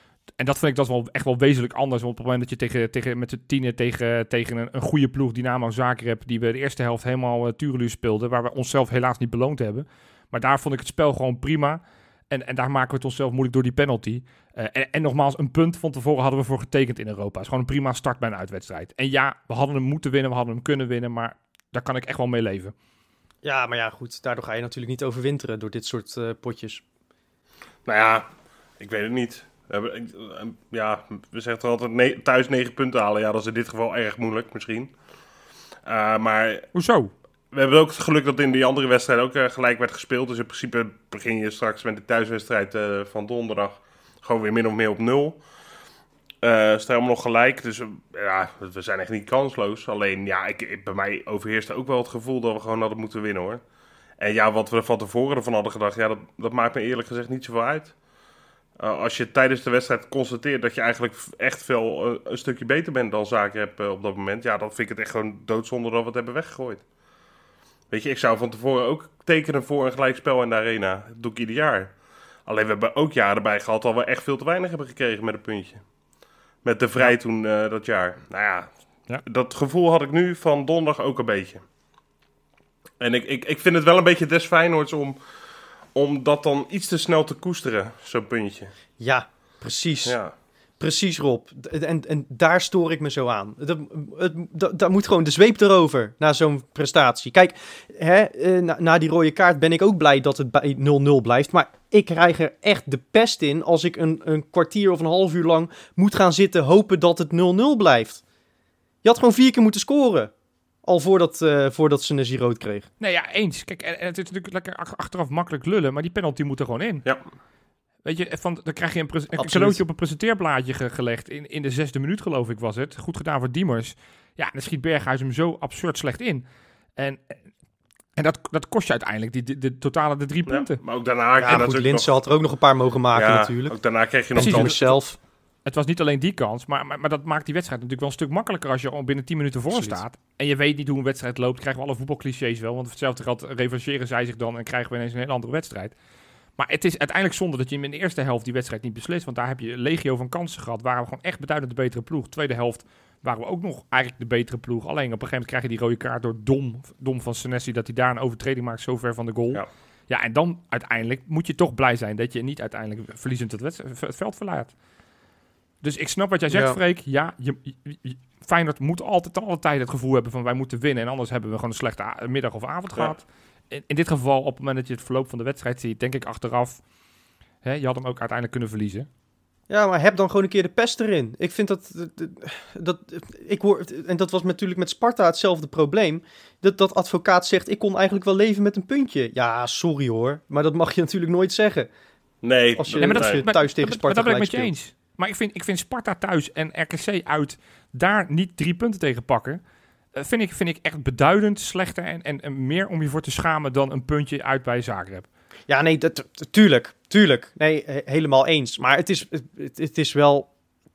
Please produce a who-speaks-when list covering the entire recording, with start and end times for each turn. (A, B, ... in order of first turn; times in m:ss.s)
0:00.4-0:22.7 A
0:23.4-0:26.8 B
0:27.9-0:28.3 C
0:28.8-0:34.9 C
0:35.9-0:36.7 C
0:36.7-0:37.1 A
0:37.5-0:45.4 C
0:46.4-0:53.6 C
0:54.2-0:57.9 C
0:58.8-1:06.8 C
1:07.9-1:11.9 C
1:12.5-1:15.8 C
1:16.6-1:18.7 C
1:19.2-1:21.6 C
1:23.0-1:25.2 C
1:25.9-1:28.7 C
1:29.0-1:30.2 B
1:30.0-1:30.3 C
1:30.8-1:48.2 B
1:49.0-1:50.3 B
1:50.8-1:52.9 B
1:53.0-1:57.1 A
1:58.0-2:06.4 A
1:59.3-1:59.8 B
2:07.0-2:07.3 A
2:08.2-2:10.8 A
2:10.5-2:12.1 C
2:11.4-2:13.8 B
2:13.1-2:15.0 C
2:14.4-2:15.2 B
2:14.4-2:14.7 A
2:15.7-2:25.9 A
2:19.7-2:20.0 B
2:26.6-2:44.7 A
2:45.8-2:56.8 A
2:46.5-2:46.8 B
2:57.6-2:59.1 A
2:59.7-3:11.9 B
3:12.4-3:13.4 C
3:12.8-3:14.7 B
3:13.0-3:19.6 A
3:20.2-3:25.3 A
3:25.7-3:30.5 B